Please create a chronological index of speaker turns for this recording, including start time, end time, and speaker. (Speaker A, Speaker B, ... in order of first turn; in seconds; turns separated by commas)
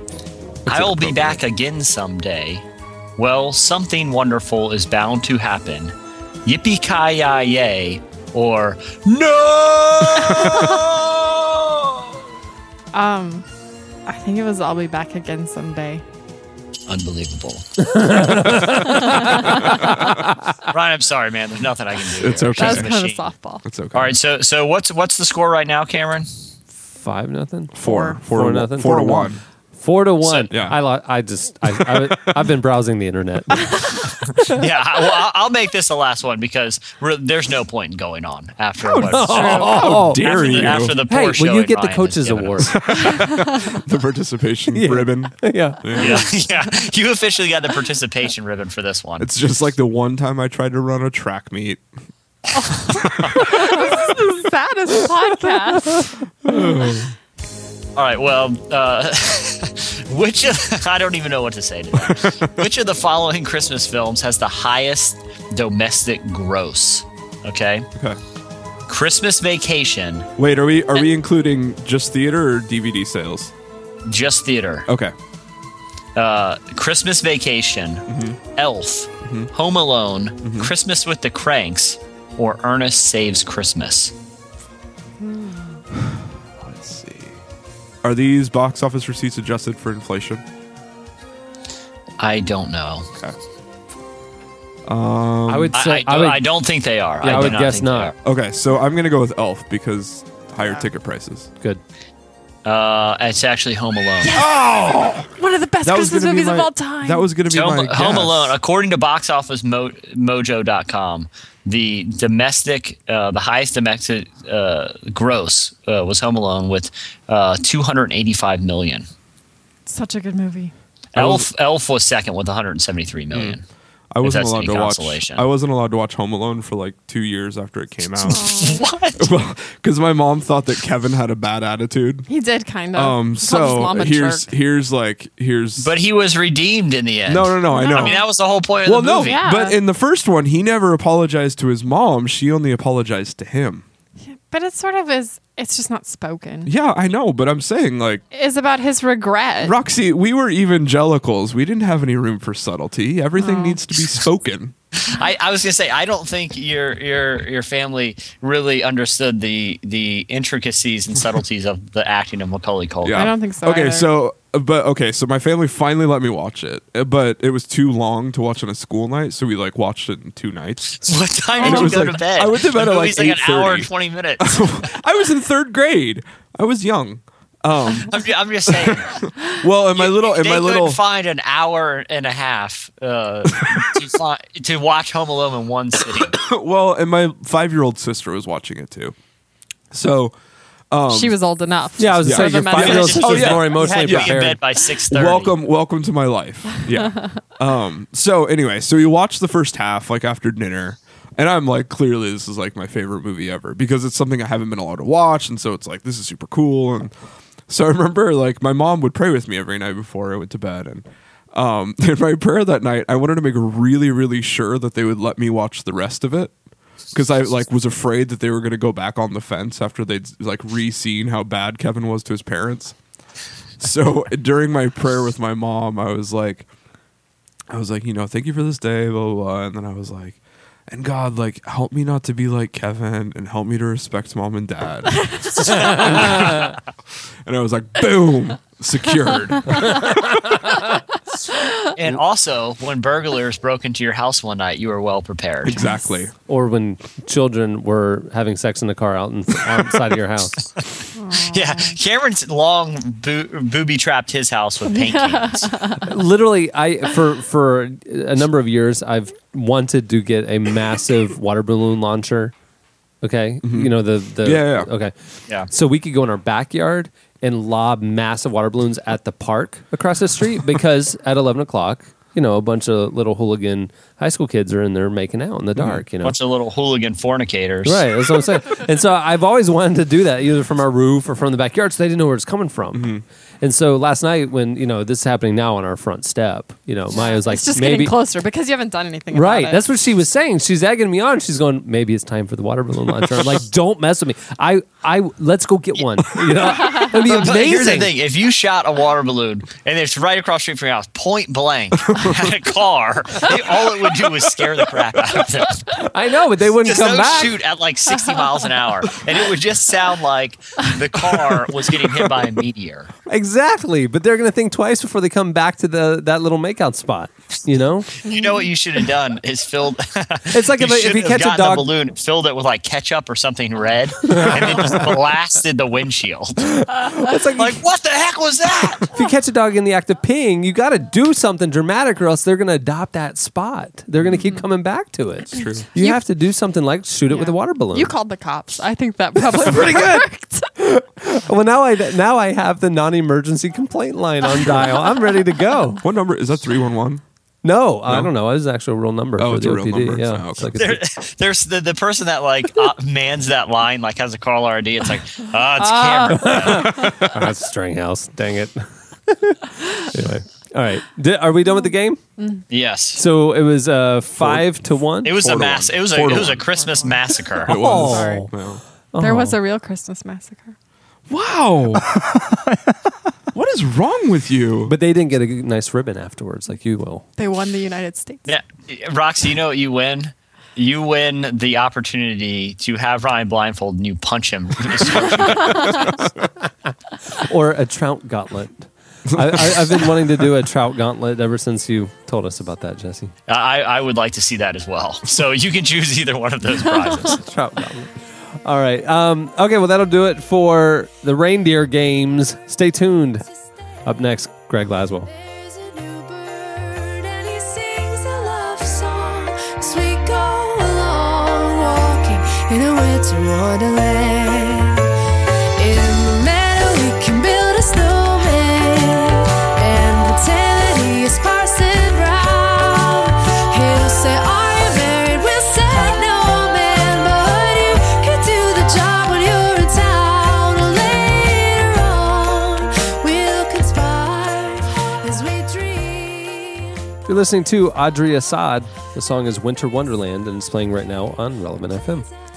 Speaker A: 0.7-1.4, Speaker B: 0.7-2.6, Speaker B: 3.2-5.9, Speaker B: 6.4-11.6, Speaker A: 10.2-10.7, Speaker C: 12.9-13.4, Speaker C: 14.1-16.0, Speaker B: 16.9-17.9, Speaker D: 18.0-19.1, Speaker A: 18.3-20.2, Speaker C: 19.1-19.6, Speaker B: 20.7-23.2, Speaker A: 22.2-22.9, Speaker C: 22.6-23.6, Speaker A: 23.6-24.1, Speaker B: 23.9-26.3, Speaker D: 26.9-33.7, Speaker A: 27.7-29.4, Speaker B: 30.2-30.5, Speaker A: 30.5-30.8, Speaker A: 31.8-32.5, Speaker B: 34.5-42.8, Speaker A: 38.8-41.0, Speaker D: 39.0-42.8, Speaker C: 39.4-40.7, Speaker A: 42.7-46.3, Speaker D: 44.7-46.1, Speaker B: 46.0-49.3, Speaker A: 49.2-51.8, Speaker C: 52.7-56.6, Speaker A: 52.9-54.1, Speaker A: 56.4-57.1, Speaker B: 58.0-67.9, Speaker A: 62.0-62.5, Speaker B: 68.9-70.3, Speaker A: 70.4-73.5, Speaker B: 74.0-74.9, Speaker A: 74.9-75.1, Speaker B: 76.2-78.0, Speaker A: 78.1-78.4, Speaker B: 78.5-84.1, Speaker A: 79.2-79.5, Speaker A: 80.4-80.7, Speaker C: 85.2-85.6, Speaker A: 86.0-87.4, Speaker A: 88.0-90.4, Speaker B: 92.2-93.1, Speaker A: 94.9-95.8, Speaker D: 95.5-96.5, Speaker B: 95.7-98.1, Speaker D: 97.2-98.1, Speaker A: 98.2-101.5, Speaker B: 102.6-104.4, Speaker C: 104.2-104.6, Speaker A: 104.3-105.3, Speaker C: 105.4-107.3, Speaker A: 105.8-108.5, Speaker B: 107.5-119.1, Speaker C: 119.8-120.7, Speaker B: 121.1-123.6, Speaker A: 121.2-121.5, Speaker A: 123.3-123.6, Speaker A: 124.1-132.3, Speaker B: 124.2-125.4, Speaker B: 128.2-129.3, Speaker C: 128.3-128.8, Speaker C: 132.3-134.5, Speaker A: 132.9-135.9, Speaker B: 135.8-139.4, Speaker A: 137.3-138.2, Speaker C: 137.7-138.2, Speaker A: 138.8-143.8, Speaker C: 139.2-139.8, Speaker C: 144.2-146.7, Speaker A: 146.7-148.2, Speaker C: 148.3-149.7, Speaker A: 149.6-154.7, Speaker C: 153.4-153.8, Speaker B: 155.0-163.3, Speaker A: 163.0-181.0, Speaker C: 163.1-164.1, Speaker B: 171.0-174.9, Speaker C: 171.6-172.2, Speaker B: 178.1-179.2, Speaker B: 179.9-186.4, Speaker A: 186.3-189.1, Speaker A: 189.9-190.3, Speaker A: 190.9-191.4, Speaker C: 191.1-193.5, Speaker D: 192.0-194.6, Speaker A: 192.2-194.5, Speaker B: 192.8-195.6, Speaker A: 195.1-207.1, Speaker A: 207.7-216.5, Speaker A: 217.1-222.9, Speaker A: 223.8-226.7, Speaker A: 227.7-236.8, Speaker C: 235.3-235.9, Speaker A: 237.4-240.8, Speaker B: 241.9-245.9, Speaker A: 245.6-246.3, Speaker D: 246.5-250.6, Speaker C: 251.2-251.9, Speaker B: 251.5-255.8, Speaker C: 254.9-256.1, Speaker D: 256.0-262.5, Speaker D: 263.2-265.1, Speaker A: 263.6-264.9, Speaker D: 265.7-276.4, Speaker A: 275.8-276.0, Speaker B: 276.2-278.4, Speaker D: 277.8-288.1, Speaker A: 282.9-283.2, Speaker C: 287.1-289.9, Speaker D: 289.3-298.1, Speaker B: 297.1-305.8, Speaker A: 302.1-302.4, Speaker A: 305.3-306.0, Speaker D: 306.1-307.6, Speaker B: 306.8-313.1, Speaker C: 308.2-308.5, Speaker A: 311.2-312.3, Speaker D: 313.3-318.1, Speaker C: 318.2-318.7, Speaker B: 318.2-326.7, Speaker D: 320.5-321.9, Speaker A: 324.5-325.0, Speaker D: 327.1-327.8, Speaker B: 327.6-329.1, Speaker D: 329.1-338.1, Speaker A: 335.5-335.9, Speaker C: 335.9-336.2, Speaker C: 337.3-340.7, Speaker D: 339.5-340.2, Speaker D: 340.8-346.0, Speaker A: 346.0-347.2, Speaker D: 347.6-351.0, Speaker A: 348.1-348.3, Speaker A: 349.4-350.8, Speaker B: 350.8-357.1, Speaker C: 355.8-356.5, Speaker D: 356.3-362.2, Speaker A: 356.8-357.3, Speaker C: 362.4-362.6, Speaker B: 362.7-363.2, Speaker D: 363.1-365.5, Speaker A: 364.4-366.7, Speaker B: 365.2-367.7, Speaker A: 367.6-368.8, Speaker D: 367.7-368.5, Speaker C: 367.9-368.5, Speaker D: 369.1-369.6, Speaker C: 369.2-370.7, Speaker A: 371.3-372.3, Speaker A: 373.5-374.9, Speaker D: 374.9-377.2, Speaker C: 377.4-378.5, Speaker B: 378.5-386.1, Speaker A: 385.4-386.3, Speaker C: 385.7-386.0, Speaker D: 387.3-393.3, Speaker A: 389.3-390.0, Speaker B: 393.5-397.4, Speaker C: 397.0-397.4, Speaker D: 397.3-398.1, Speaker D: 398.6-403.4, Speaker D: 404.0-405.3, Speaker E: 405.3-415.1, Speaker E: 415.8-437.0, Speaker D: 437.2-442.3